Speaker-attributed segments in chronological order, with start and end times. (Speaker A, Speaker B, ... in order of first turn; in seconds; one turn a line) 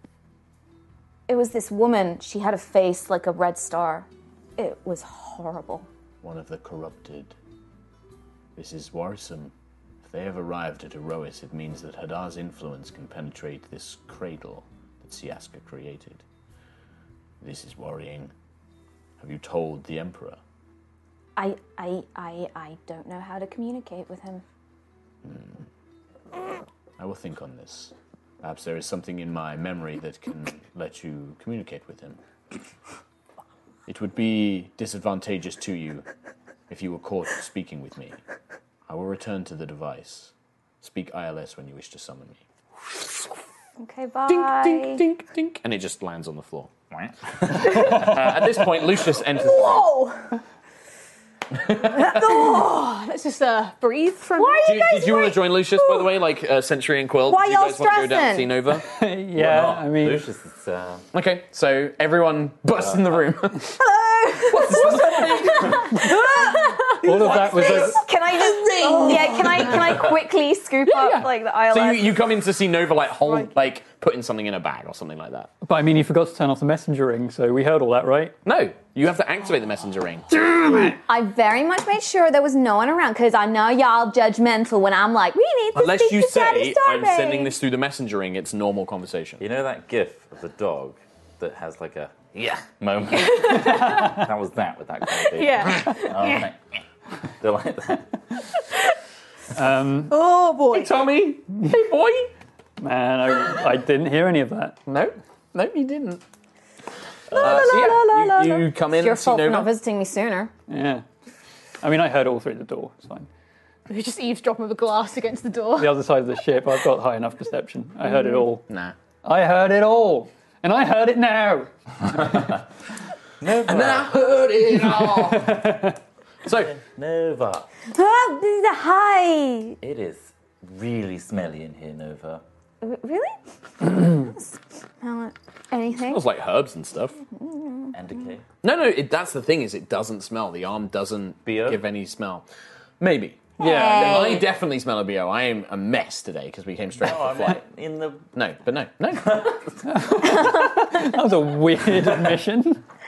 Speaker A: 1.3-5.9
Speaker B: 6.2-7.4
Speaker B: 8.6-16.2
Speaker B: 17.4-18.3
Speaker B: 19.2-20.4
Speaker A: 21.4-24.4
Speaker B: 25.2-25.7
Speaker B: 27.0-32.2
Speaker B: 33.9-36.1
Speaker B: 36.7-38.2
Speaker B: 38.9-43.3
Speaker A: 43.8-45.0
Speaker B: 44.3-46.7
Speaker C: 46.9-47.9
Speaker B: 47.5-49.9
Speaker D: 47.7-48.1
Speaker D: 49.3-50.4
Speaker B: 51.7-52.2
Speaker D: 51.8-55.3
Speaker A: 54.4-55.3
Speaker B: 54.6-58.9
Speaker A: 57.3-58.5
Speaker E: 58.9-60.3
Speaker C: 59.3-61.1
Speaker B: 61.1-63.8
Speaker C: 62.8-63.2
Speaker A: 64.0-72.2
Speaker B: 64.5-66.2
Speaker D: 65.4-65.7
Speaker E: 67.0-68.0
Speaker B: 67.1-68.0
Speaker D: 68.8-69.7
Speaker B: 71.7-75.5
Speaker D: 73.3-73.5
Speaker E: 75.6-78.3
Speaker B: 78.5-80.9
Speaker A: 81.0-87.5
Speaker B: 85.7-89.4
Speaker C: 89.4-96.8
Speaker D: 93.3-93.9
Speaker E: 93.5-94.2
Speaker D: 95.2-96.5
Speaker C: 97.4-98.2
Speaker E: 99.5-100.2
Speaker D: 100.1-101.1
Speaker B: 100.7-102.3
Speaker E: 102.8-104.8
Speaker B: 104.9-106.2
Speaker B: 107.3-109.7
Speaker A: 107.3-110.5
Speaker D: 107.4-108.6
Speaker E: 110.7-111.0
Speaker E: 111.8-113.3
Speaker D: 113.9-116.0
Speaker E: 115.8-118.7
Speaker B: 118.7-119.0
Speaker E: 119.2-122.5
Speaker C: 123.4-124.2
Speaker B: 123.7-125.6
Speaker E: 125.3-126.0
Speaker B: 126.4-126.7
Speaker C: 126.5-127.7
Speaker A: 127.9-129.8
Speaker C: 129.8-132.4
Speaker A: 132.8-136.2
Speaker B: 136.1-137.2
Speaker A: 137.3-138.0
Speaker C: 137.9-138.5
Speaker B: 138.6-142.5
Speaker C: 141.4-141.8
Speaker B: 143.0-147.6
Speaker E: 143.6-144.3
Speaker A: 143.6-144.5
Speaker C: 147.0-148.3
Speaker B: 148.3-149.6
Speaker C: 149.2-149.6
Speaker E: 149.8-152.8
Speaker A: 150.4-151.0